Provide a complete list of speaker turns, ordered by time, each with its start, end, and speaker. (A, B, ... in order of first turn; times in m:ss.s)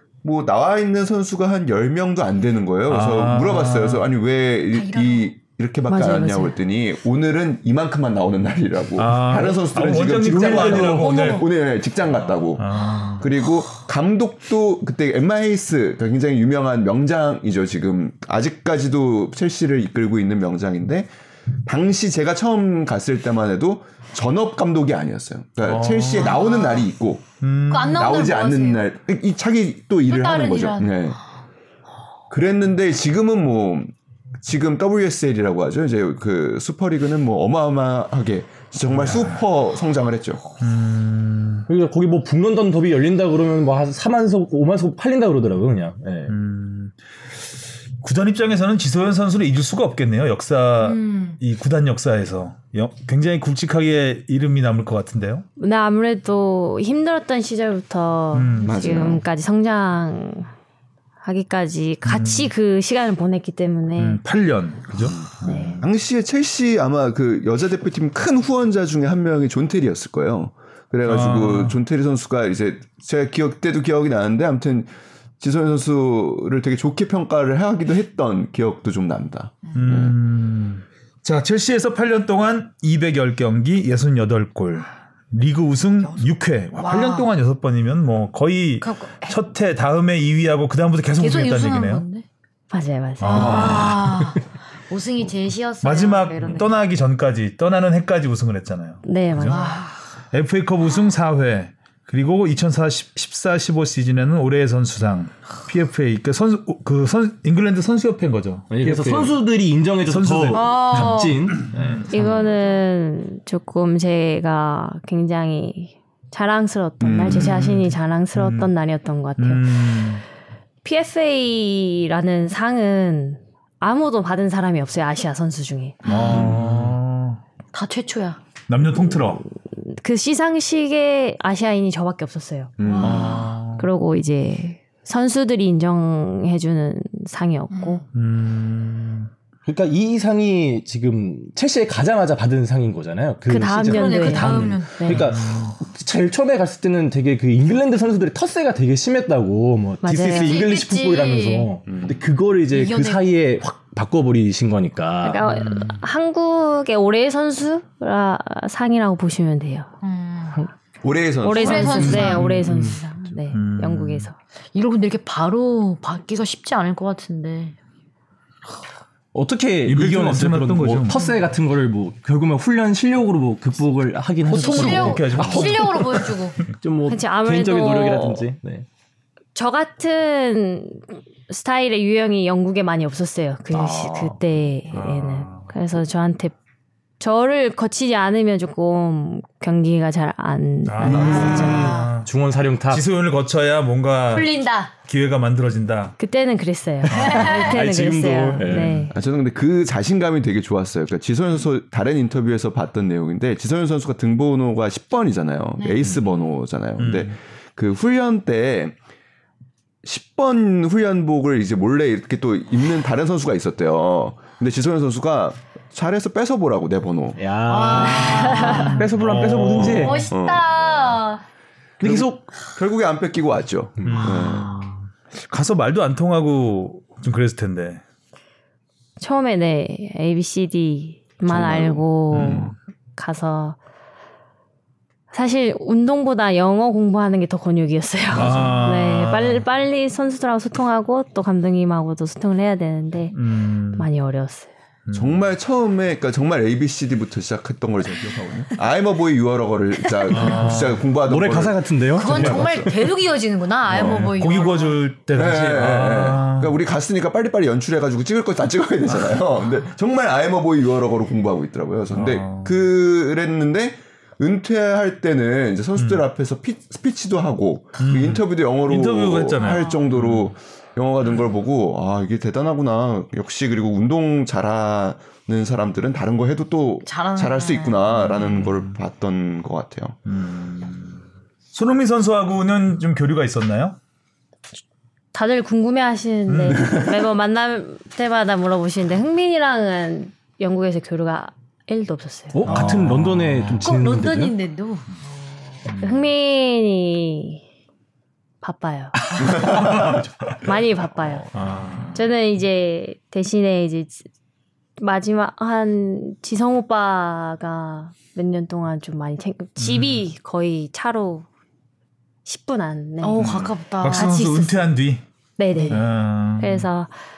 0:00.2-0:21.1 A
0:02.9-0:04.1 B
0:04.7-0:05.3 C
0:05.9-0:06.5 D
0:09.0-0:11.4 B
0:10.6-0:11.4 C
0:11.1-0:11.4 D
0:12.6-0:13.2 B
0:21.6-0:31.2 A
0:25.6-0:26.4 B
0:26.2-0:26.9 C
0:27.4-0:28.1 B
0:27.7-0:28.8 C
0:30.1-0:31.0 C
0:32.3-0:40.4 A
0:38.9-0:39.4 B
0:40.6-0:41.7 B
0:41.7-0:46.3 E
0:46.3-0:47.0 B
0:48.0-0:55.4 B
0:50.8-0:51.4 C
0:55.6-1:00.5 D
0:58.3-0:58.7 B
0:58.6-0:59.2 A
1:01.2-1:04.2 D
1:02.0-1:02.5 B
1:04.0-1:05.8 B
1:05.1-1:20.1 A
1:05.4-1:05.8 D
1:11.0-1:11.8 B
1:19.7-1:32.0 B
1:26.0-1:27.3 C
1:28.8-1:29.4 C
1:31.2-1:32.2 C
1:32.7-1:33.8 D
1:33.2-1:34.3 B
1:33.2-1:36.8 C
1:35.8-1:39.7 B
1:39.0-1:39.7 D
1:39.5-1:40.0 C
1:40.3-1:49.4 B
1:48.7-1:52.1 E
1:50.0-1:52.5 B
1:50.5-1:51.5 C
1:52.1-2:00.0 D
1:57.0-1:57.6 A
1:57.3-1:58.7 B
1:59.4-2:00.2 B
2:00.8-2:06.0 D
2:06.0-2:06.5 C
2:06.0-2:07.4 B
2:06.3-2:06.8 A
2:07.7-2:08.4 C
2:08.7-2:09.4 B
2:09.7-2:12.7 D
2:12.8-2:13.4 A
2:12.8-2:13.5 C
2:13.0-2:13.9 B
2:13.2-2:18.0 D
2:17.7-2:18.0 C
2:18.1-2:19.3 B
2:19.6-2:35.4 E
2:23.5-2:25.3 D
2:23.8-2:25.2 C
2:25.1-2:25.8 B
2:30.0-2:30.6 D
2:30.3-2:31.7 C
2:31.9-2:32.2 A
2:32.7-2:33.2 C
2:35.2-2:39.9 D
2:35.4-2:36.0 B
2:40.0-2:40.7 C
2:41.0-2:42.4 A
2:41.4-2:44.3 D
2:41.5-2:42.9 C
2:42.1-2:43.0 B
2:42.1-2:43.0 E
2:43.5-2:44.3 B
2:44.7-2:47.8 C
2:49.3-2:58.8 E
2:49.8-2:51.2 B
2:54.5-2:56.3 B
2:54.5-2:56.6 C
2:57.1-2:58.5 D
2:59.5-3:06.5 D
3:03.7-3:04.4 E
3:04.9-3:05.7 B
3:07.2-3:11.9 D
3:10.8-3:12.3 B
3:11.0-3:12.1 C
3:11.1-3:13.0 E
3:12.9-3:16.2 B
3:14.3-3:14.9 C
3:16.2-3:19.1 D
3:17.1-3:17.4 B
3:17.1-3:19.1 E
3:17.2-3:17.7 C
3:18.7-3:19.0 B
3:19.1-3:29.0 A
3:25.8-3:26.1 C
3:27.0-3:27.3 B
3:30.0-3:38.4 A
3:37.4-3:40.3 E
3:37.7-3:39.0 C
3:38.6-3:40.3 B
3:39.8-3:41.4 C
3:40.3-3:41.2 A
3:42.0-3:42.5 E
3:42.0-3:44.8 A
3:44.0-3:44.3 E
3:44.0-3:48.0 B
3:49.2-3:53.8 D
3:51.5-3:52.7 A
3:52.3-3:52.7 B
3:55.3-4:03.4 D
3:58.3-3:58.9 A
3:58.3-3:59.6 B
4:03.3-4:04.1 B
4:03.9-4:04.7 D
4:05.0-4:05.4 B
4:05.1-4:13.0 A
4:10.1-4:10.6 C
4:10.3-4:11.0 B
4:11.1-4:12.8 E
4:12.1-4:15.0 C
4:13.9-4:14.4 A
4:13.9-4:16.7 B
4:15.3-4:40.2 A
4:22.1-4:22.8 B
4:26.0-4:26.2 B
4:28.0-4:30.5 B
4:29.6-4:30.0 C
4:37.0-4:38.3 C
4:38.4-4:38.9 B
4:40.2-4:41.2 B
4:41.7-4:44.0 B
4:45.3-4:52.8 D
4:46.5-4:47.0 B
4:46.7-4:47.0 A
4:52.5-4:54.6 E
4:52.6-4:53.9 B
4:53.8-4:55.2 C
4:55.8-4:56.3 B
4:56.0-4:57.6 D
4:58.6-5:00.1 D
4:59.6-4:59.9 A
4:59.6-5:00.6 B
5:00.6-5:01.5 D
5:01.5-5:02.2 B
5:02.1-5:04.3 D
5:05.0-5:11.4 D
5:09.8-5:10.2 B
5:12.4-5:14.9 D
5:13.2-5:14.4 C
5:13.4-5:15.2 B
5:13.4-5:13.7 A
5:15.6-5:17.1 D
5:15.7-5:16.0 C
5:15.9-5:16.9 B